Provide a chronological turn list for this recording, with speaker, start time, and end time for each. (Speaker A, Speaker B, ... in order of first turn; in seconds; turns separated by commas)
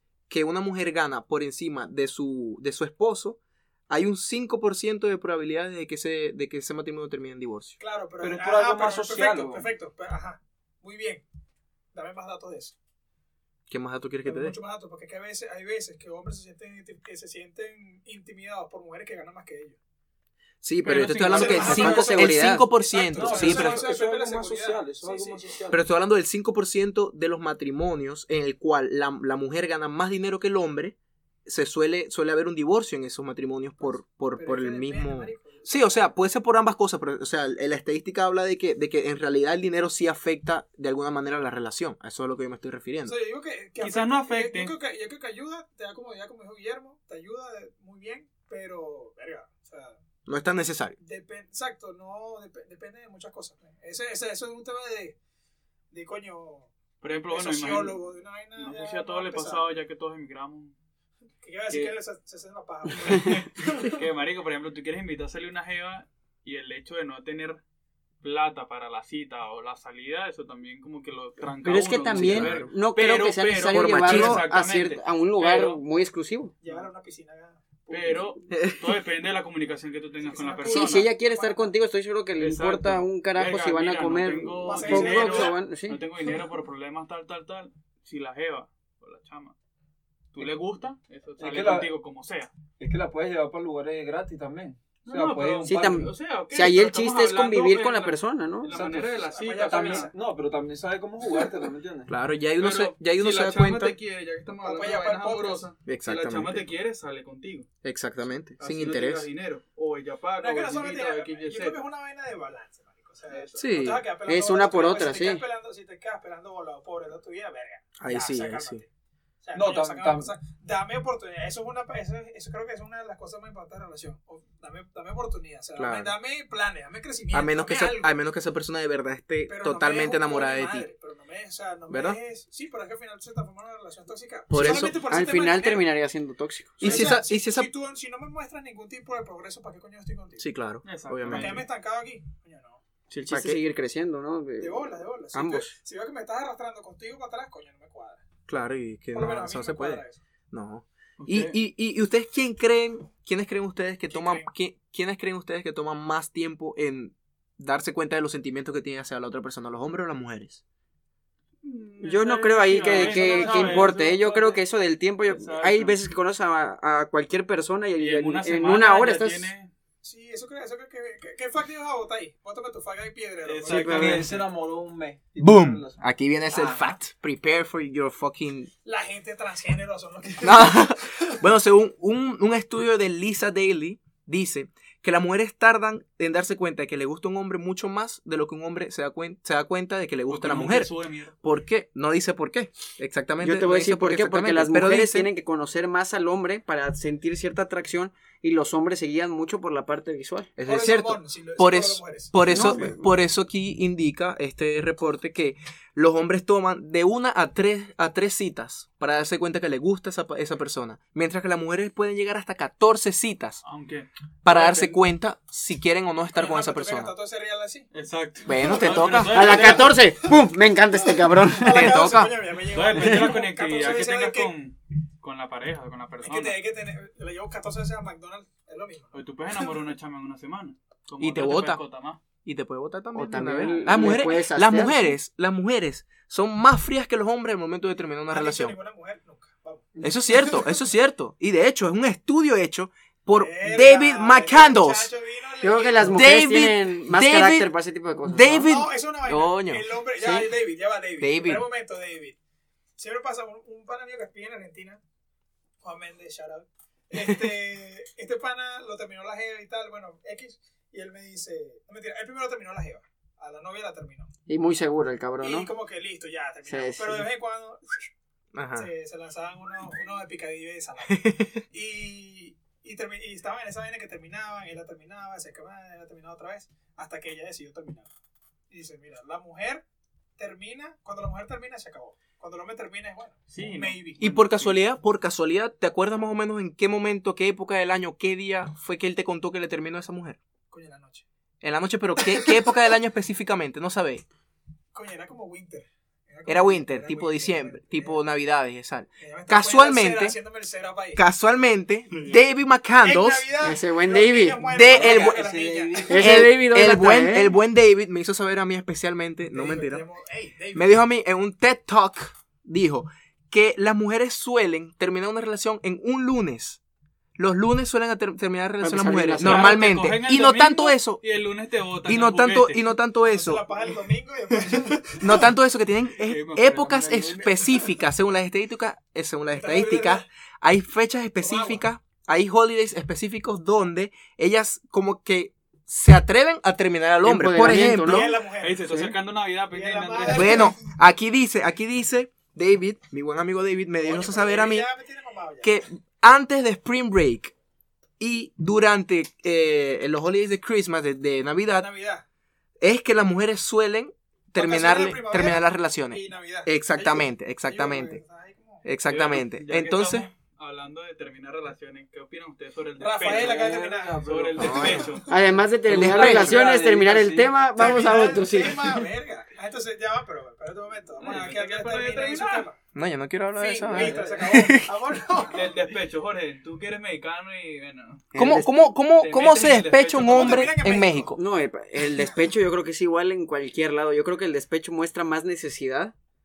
Speaker A: 0.3-7.8, Speaker B: 7.8-11.2, Speaker C: 8.2-9.7, Speaker B: 11.9-12.7, Speaker A: 13.7-14.6, Speaker B: 14.2-19.8, Speaker A: 20.6-23.8, Speaker D: 20.8-22.0, Speaker B: 21.2-25.5, Speaker E: 21.4-22.7, Speaker C: 23.1-25.8, Speaker A: 25.7-43.1, Speaker B: 33.8-36.1, Speaker B: 43.0-50.0, Speaker D: 43.8-44.7, Speaker A: 50.2-51.0, Speaker B: 51.0-55.2, Speaker B: 55.9-56.7, Speaker D: 57.0-58.0, Speaker B: 57.3-59.7, Speaker D: 58.6-60.7, Speaker B: 61.4-64.0, Speaker D: 61.7-61.9, Speaker D: 63.0-67.6, Speaker D: 68.2-75.8, Speaker E: 71.6-76.5, Speaker A: 72.1-72.6, Speaker A: 73.7-74.4, Speaker B: 76.6-78.3, Speaker D: 76.6-76.9, Speaker D: 77.9-81.1, Speaker A: 78.5-79.0, Speaker B: 80.2-81.7, Speaker E: 80.7-86.0, Speaker D: 82.4-89.5, Speaker B: 84.6-85.6, Speaker D: 90.3-92.5, Speaker C: 91.4-91.9, Speaker C: 92.8-96.1, Speaker D: 95.0-100.1, Speaker E: 95.6-98.7, Speaker C: 98.7-102.1, Speaker B: 99.1-100.1, Speaker A: 102.1-104.0, Speaker D: 102.6-107.7, Speaker B: 104.6-105.7, Speaker A: 105.8-106.7, Speaker A: 107.8-109.3, Speaker D: 108.6-111.8, Speaker B: 110.4-118.9, Speaker D: 113.3-113.7, Speaker A: 113.5-114.0, Speaker E: 114.3-115.4, Speaker A: 118.0-118.8, Speaker B: 119.4-128.2, Speaker C: 119.5-120.3, Speaker A: 125.8-126.1, Speaker A: 127.3-130.9, Speaker B: 129.4-135.8, Speaker A: 131.9-132.2, Speaker A: 134.5-135.0, Speaker E: 134.6-137.1, Speaker A: 136.8-137.7, Speaker B: 136.8-140.5, Speaker A: 140.4-141.6, Speaker D: 140.8-141.6, Speaker B: 141.3-142.8, Speaker A: 143.1-143.6, Speaker E: 143.1-145.7, Speaker B: 144.6-148.2, Speaker A: 148.5-160.6, Speaker B: 149.1-150.2, Speaker D: 151.2-151.5, Speaker B: 154.1-154.5, Speaker D: 161.6-164.6, Speaker E: 162.0-169.5, Speaker B: 162.8-163.9, Speaker D: 165.2-166.0, Speaker D: 167.9-169.7, Speaker B: 170.0-174.2, Speaker D: 173.4-174.5, Speaker E: 173.7-174.3, Speaker C: 173.7-176.9, Speaker A: 175.4-178.7, Speaker B: 178.8-181.2, Speaker A: 180.4-190.9, Speaker D: 190.3-191.3, Speaker A: 191.4-195.3, Speaker E: 193.4-200.5, Speaker A: 200.6-213.6, Speaker B: 200.7-202.3, Speaker E: 202.4-203.0, Speaker D: 213.6-215.0, Speaker A: 214.4-217.1, Speaker B: 216.3-217.9, Speaker D: 217.9-220.0, Speaker A: 218.4-219.6, Speaker B: 218.6-219.9, Speaker E: 219.3-222.1, Speaker B: 221.2-224.5, Speaker A: 221.7-222.4, Speaker D: 222.7-226.6, Speaker B: 226.2-229.8, Speaker D: 229.1-232.2, Speaker A: 231.2-231.8, Speaker A: 232.4-238.8, Speaker E: 233.1-235.2, Speaker B: 238.3-240.7, Speaker A: 240.0-245.1, Speaker B: 243.3-246.2, Speaker E: 245.6-248.7, Speaker A: 246.0-247.7, Speaker A: 248.2-249.9, Speaker B: 248.6-252.4, Speaker E: 250.2-250.5, Speaker A: 251.2-251.6, Speaker B: 253.0-255.0, Speaker B: 255.8-264.3, Speaker A: 257.1-257.5, Speaker E: 264.5-265.7, Speaker B: 265.4-267.8, Speaker E: 266.7-267.3, Speaker A: 268.5-268.9, Speaker B: 268.8-278.1, Speaker A: 271.1-271.6, Speaker B: 278.7-279.8, Speaker B: 280.4-284.2, Speaker D: 283.5-284.8, Speaker A: 284.2-290.4, Speaker B: 290.7-291.2, Speaker A: 291.6-294.2, Speaker B: 292.2-292.6, Speaker B: 294.9-298.2, Speaker A: 296.4-300.4, Speaker B: 299.2-301.2, Speaker A: 301.1-303.5, Speaker B: 303.0-306.2, Speaker E: 303.6-304.6, Speaker A: 304.6-305.4, Speaker C: 304.9-306.2, Speaker E: 306.1-307.6, Speaker A: 306.2-310.0, Speaker B: 309.5-310.9, Speaker A: 310.7-316.8, Speaker A: 317.4-321.2, Speaker E: 318.8-319.8, Speaker D: 319.4-322.8, Speaker A: 322.0-323.6, Speaker B: 323.2-325.5, Speaker A: 325.2-338.4, Speaker D: 326.2-327.9, Speaker B: 329.5-330.2, Speaker B: 331.4-331.8, Speaker E: 337.2-338.3, Speaker B: 337.6-339.1, Speaker D: 338.6-340.7, Speaker B: 339.7-340.8, Speaker A: 340.3-344.9, Speaker B: 344.0-345.7, Speaker A: 345.6-347.5, Speaker A: 348.2-351.9, Speaker B: 351.7-352.2, Speaker A: 352.8-358.2, Speaker B: 354.6-358.9, Speaker A: 358.8-360.3, Speaker D: 359.1-363.7, Speaker B: 363.0-365.3, Speaker C: 363.2-365.1, Speaker D: 364.2-365.3, Speaker E: 364.6-369.1, Speaker A: 365.9-366.6, Speaker C: 365.9-367.6, Speaker B: 367.7-372.8, Speaker D: 371.2-372.7, Speaker A: 372.9-375.0, Speaker B: 373.6-375.9, Speaker C: 373.9-374.4, Speaker D: 375.5-378.2, Speaker E: 378.3-378.9, Speaker A: 378.3-381.4, Speaker D: 379.2-380.7, Speaker B: 380.2-381.4, Speaker E: 381.3-386.1